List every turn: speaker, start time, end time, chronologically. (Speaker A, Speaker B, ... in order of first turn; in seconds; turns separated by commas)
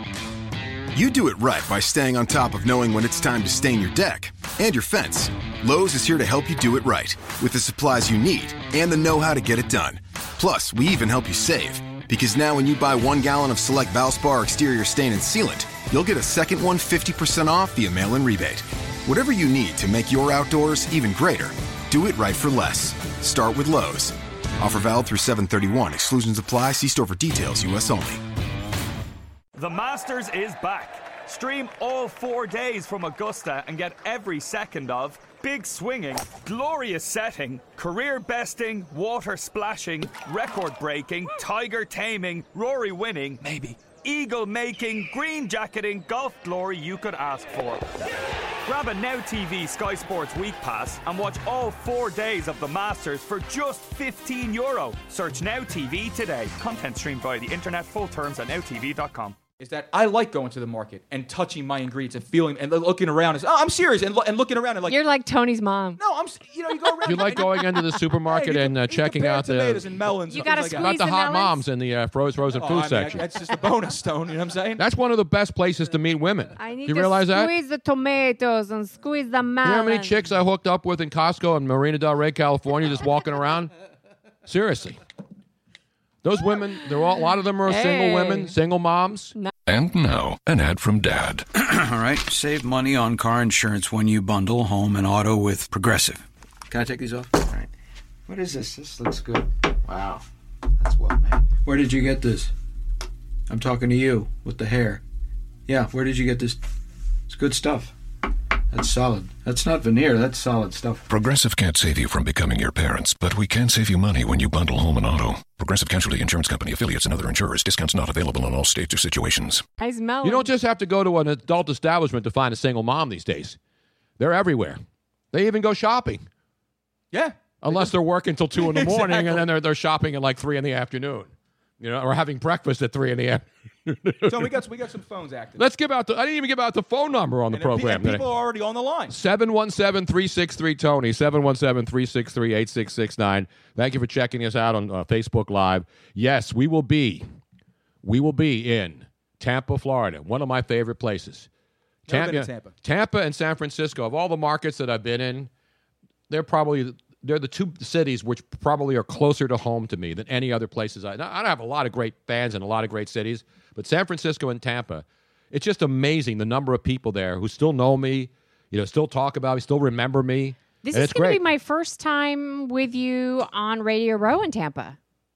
Speaker A: 0.9-28.2, Speaker B: 29.6-47.9, Speaker C: 43.4-43.8, Speaker B: 48.6-59.4, Speaker C: 59.6-65.0, Speaker D: 64.9-66.0, Speaker C: 66.0-70.9, Speaker E: 67.0-73.2, Speaker D: 70.3-71.6, Speaker C: 72.5-74.8, Speaker E: 74.8-77.5, Speaker D: 76.6-80.2, Speaker E: 79.7-83.7, Speaker E: 84.5-85.0, Speaker E: 86.2-89.3, Speaker D: 87.7-88.5, Speaker F: 89.7-91.5, Speaker G: 91.6-97.7, Speaker G: 98.3-100.2, Speaker G: 100.8-102.5, Speaker G: 103.5-105.0, Speaker G: 105.7-106.7, Speaker G: 107.3-108.0, Speaker G: 108.7-111.1, Speaker F: 111.1-119.7, Speaker D: 119.8-120.5, Speaker E: 120.2-123.6, Speaker E: 124.2-124.8, Speaker E: 125.3-126.2, Speaker C: 127.1-127.9, Speaker E: 127.6-134.5, Speaker C: 128.6-129.4, Speaker C: 134.3-135.6, Speaker E: 135.6-138.2, Speaker C: 137.5-139.2, Speaker E: 139.1-147.2, Speaker E: 148.0-151.5, Speaker E: 152.1-155.5, Speaker C: 152.1-152.8, Speaker E: 156.3-171.4, Speaker D: 170.8-175.0